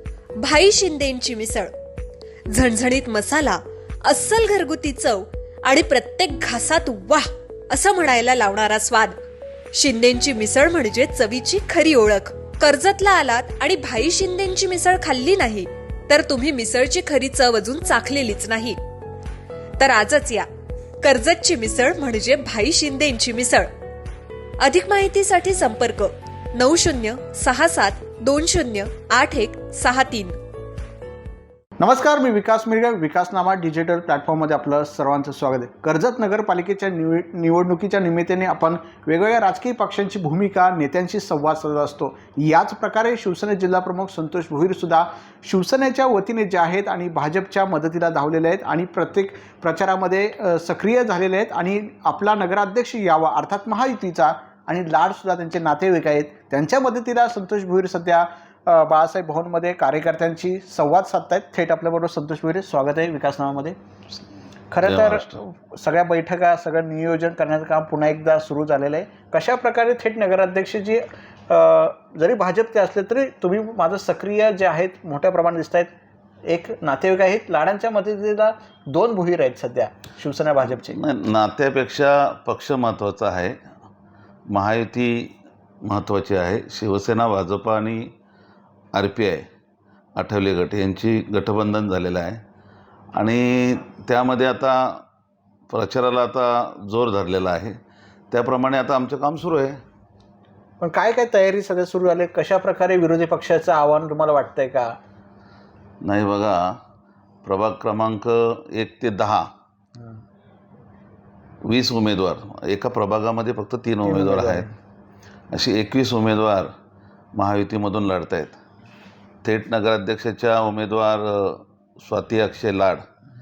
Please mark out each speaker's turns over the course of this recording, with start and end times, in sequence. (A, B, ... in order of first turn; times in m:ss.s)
0:00.4-0:01.7 A
0:02.5-0:09.2 A
0:09.7-0:18.8 A
0:19.8-0:20.5 A
0:21.0-0:23.7 A
0:24.6-0:30.4 A
0:31.8-1:03.8 B
1:04.7-1:15.9 B
1:04.8-1:05.4 C
1:16.4-1:21.0 B
1:20.7-1:23.6 C
1:24.5-1:28.1 C
1:28.9-1:29.4 C
1:30.2-1:32.4 C
1:33.1-1:35.0 C
1:35.7-1:37.8 C
1:38.3-1:39.8 C
1:40.8-1:45.0 B
1:46.0-1:46.8 C
1:47.4-1:49.5 C
1:51.6-1:54.7 C
1:54.0-1:54.7 B
1:55.5-1:56.7 C
1:57.3-1:58.6 C
1:59.4-2:03.0 C